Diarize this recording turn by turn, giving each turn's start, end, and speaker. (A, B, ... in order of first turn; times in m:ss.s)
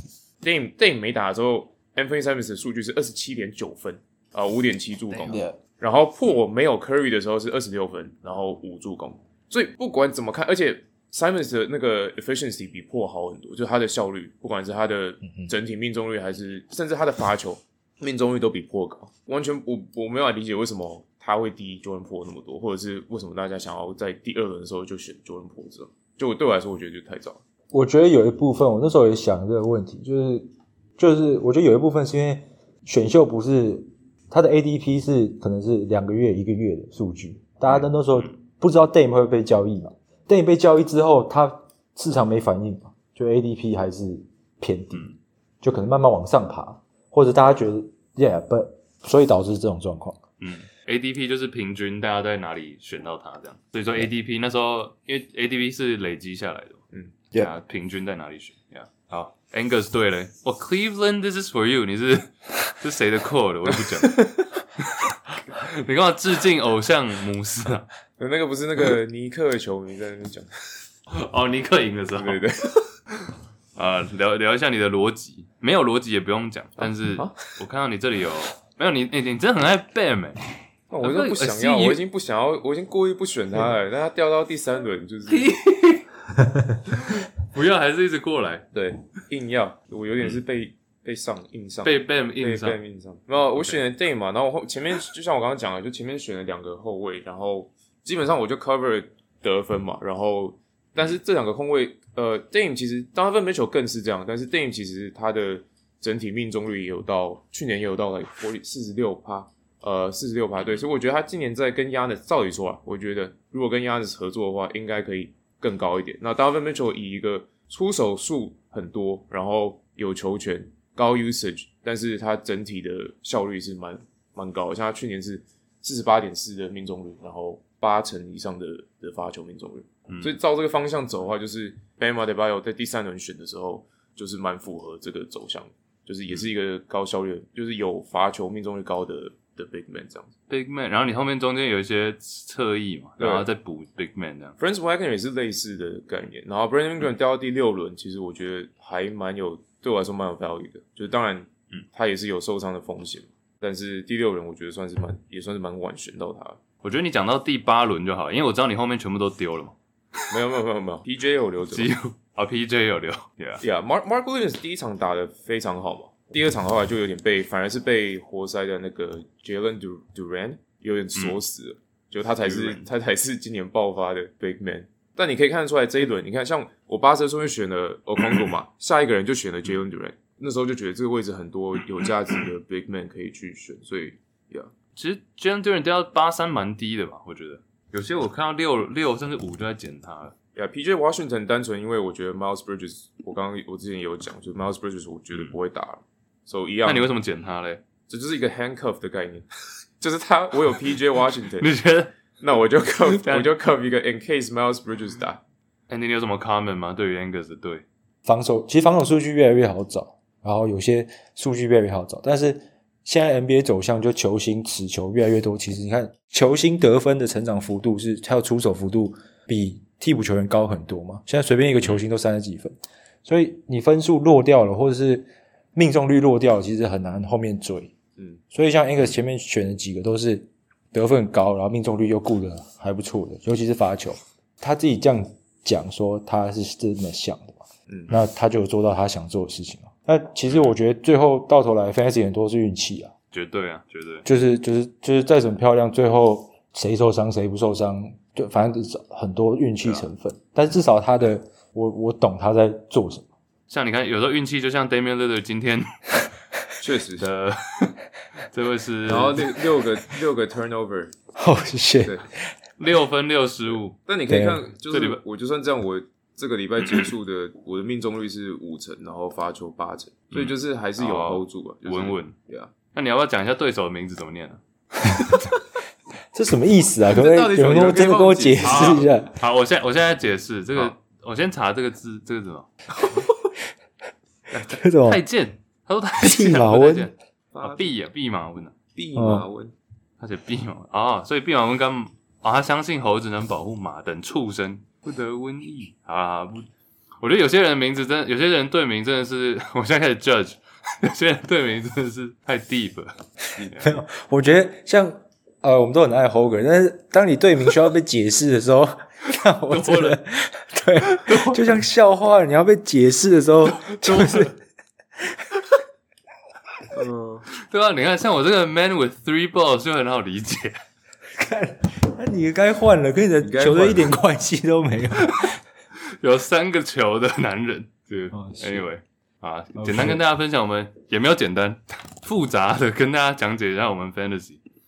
0:00.4-0:27.4 A
0:05.2-0:05.6 B
0:27.7-0:45.1 B
0:37.7-0:38.3 C
0:45.6-0:50.2 B
0:50.4-0:56.8 C
0:57.4-1:07.9 C
1:08.2-1:10.5 A
1:11.1-1:12.4 C
1:12.2-1:12.9 A
1:13.8-1:20.4 C
1:16.8-1:17.4 A
1:20.9-1:25.5 A
1:21.0-1:22.0 C
1:25.3-1:26.1 C
1:26.9-1:28.7 C
1:28.7-2:20.3 A
1:31.8-1:32.8 C
1:50.6-1:50.8 C
2:10.1-2:10.3 C
2:20.5-2:24.6 C
2:23.2-2:23.5 A
2:24.6-2:36.6 A
2:36.8-2:39.8 C
2:40.3-2:41.9 A
2:41.7-2:43.6 C
2:43.6-3:04.7 A
2:52.4-2:52.9 C
3:05.0-3:10.3 C
3:10.6-3:17.1 A
3:16.8-3:17.8 C
3:18.1-3:19.5 A
3:20.0-3:21.7 A
3:21.6-3:22.1 C
3:22.4-3:25.4 A
3:23.1-3:23.5 C
3:25.9-3:27.8 C
3:28.2-3:47.9 B
3:48.5-4:03.1 B
3:57.9-3:58.2 A
4:03.3-4:04.2 C
4:04.2-4:13.3 B
4:13.7-4:15.9 C
4:16.8-4:17.3 A
4:17.2-4:18.0 C
4:18.5-4:19.6 C
4:19.1-4:21.1 A
4:21.4-4:22.5 B
4:22.8-4:24.0 C
4:24.0-4:32.7 A
4:24.3-4:24.6 B
4:24.9-4:25.2 C
4:30.3-4:32.3 C
4:32.9-4:34.6 C
4:36.3-4:39.3 B
4:37.1-4:39.1 A
4:38.6-4:42.7 C
4:43.0-4:43.3 A
4:44.7-4:45.2 B
4:45.0-4:48.7 C
4:46.2-4:47.1 B
4:47.5-4:47.9 A
4:49.0-4:49.7 A
4:49.2-4:49.5 B
4:50.2-4:56.7 C
4:57.2-5:03.9 C
5:03.6-5:03.9 A
5:03.8-5:14.6 B
5:09.7-5:10.2 C
5:11.1-5:11.7 C
5:13.7-5:14.5 C
5:16.9-5:17.5 A
5:17.6-5:20.8 C
5:21.3-5:25.6 B
5:23.4-5:24.1 A
5:25.2-5:25.5 C
5:26.2-5:34.6 C
5:28.3-5:28.9 B
5:29.8-5:30.2 B